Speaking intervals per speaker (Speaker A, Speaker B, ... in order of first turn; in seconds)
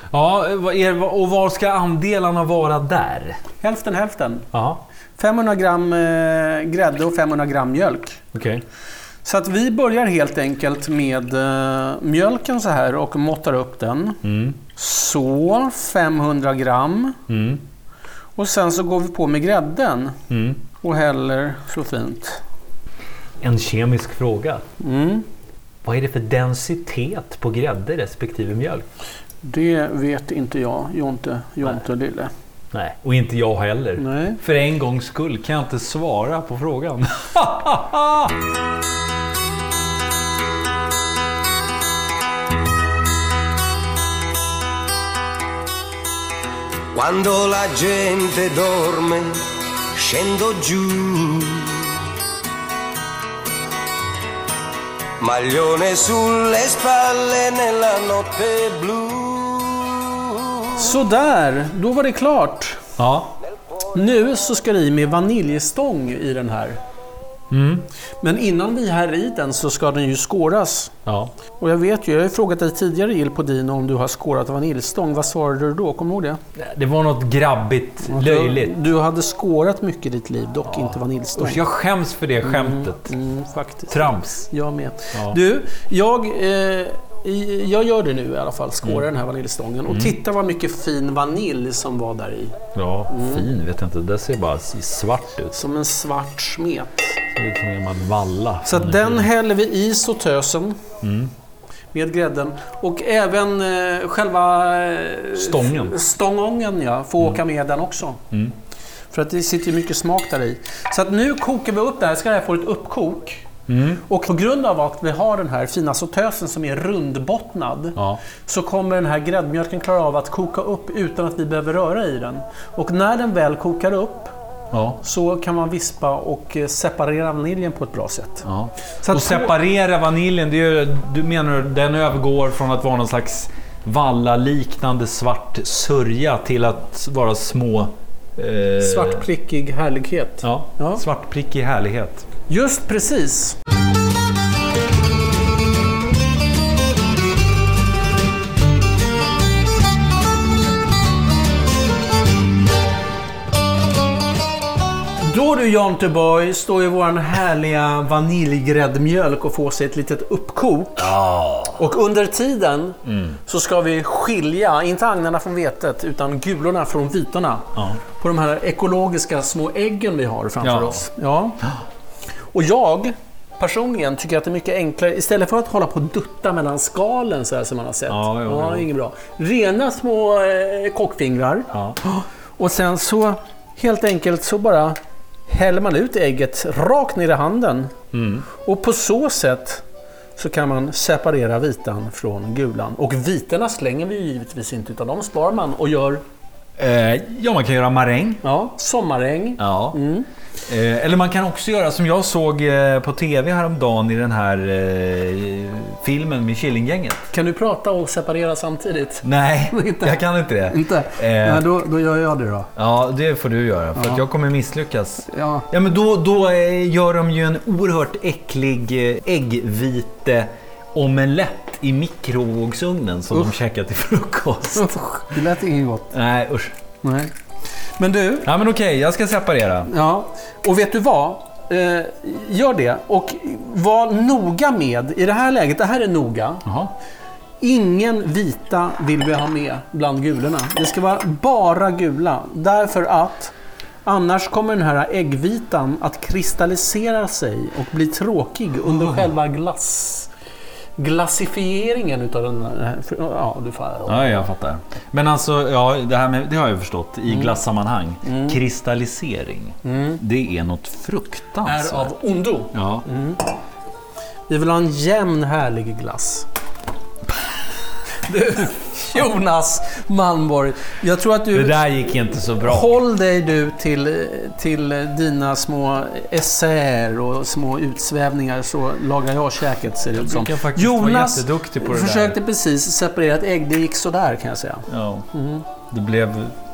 Speaker A: 0.1-3.4, 4.5-4.8, 8.3-8.6, 14.2-14.6, 17.3-17.6, 20.3-20.6, 23.4-24.6, 25.8-28.9, 32.7-38.4, 63.0-63.3, 67.5-67.9, 71.1-71.3, 76.6-78.8, 80.7-83.1, 83.9-84.5, 85.1-85.4, 89.9-90.2, 92.8-95.6, 97.3-99.3, 101.0-101.3, 105.4-106.0, 113.7-114.0, 118.0-118.2, 124.7-125.0, 128.5-139.2, 140.4-142.3, 161.0-161.8, 163.1-163.4, 167.8-168.0, 170.6-171.1, 178.1-178.9, 181.7-182.0, 188.1-188.5, 196.8-198.4, 199.6-200.0, 200.7-207.3, 209.2-211.6, 212.8-224.9, 226.1-226.8, 228.4-229.9, 236.7-236.9, 254.1-262.1, 262.7-263.1, 271.5-272.9, 280.1-282.4, 284.9-285.3, 285.9-286.6
Speaker B: 3.6-4.5, 5.2-8.2, 9.2-17.2, 18.4-20.2, 20.8-22.4, 24.8-25.3, 29.4-32.3, 34.0-34.4, 60.8-62.8, 64.0-66.8, 68.2-71.0, 71.6-76.4, 78.1-81.6, 82.4-92.6, 93.1-93.5, 95.5-97.2, 98.7-100.8, 101.9-108.2, 109.1-113.5, 114.1-124.3, 125.0-128.5, 129.0-129.5, 138.8-141.0, 142.5-143.6, 155.2-161.1, 161.8-171.6, 172.5-185.0, 185.5-187.9, 188.5-189.8, 190.4-196.2, 198.4-200.3, 207.3-212.7, 214.0-214.2, 215.3-215.7, 224.7-226.1, 227.0-227.3, 228.0-228.5, 229.9-236.7, 237.6-243.5, 244.1-250.3, 251.0-254.3, 258.2-258.6, 259.9-260.2, 261.6-263.5, 264.5-266.5, 268.3-271.9, 272.6-285.6
Speaker C: 46.9-49.4, 50.0-51.8, 55.2-60.1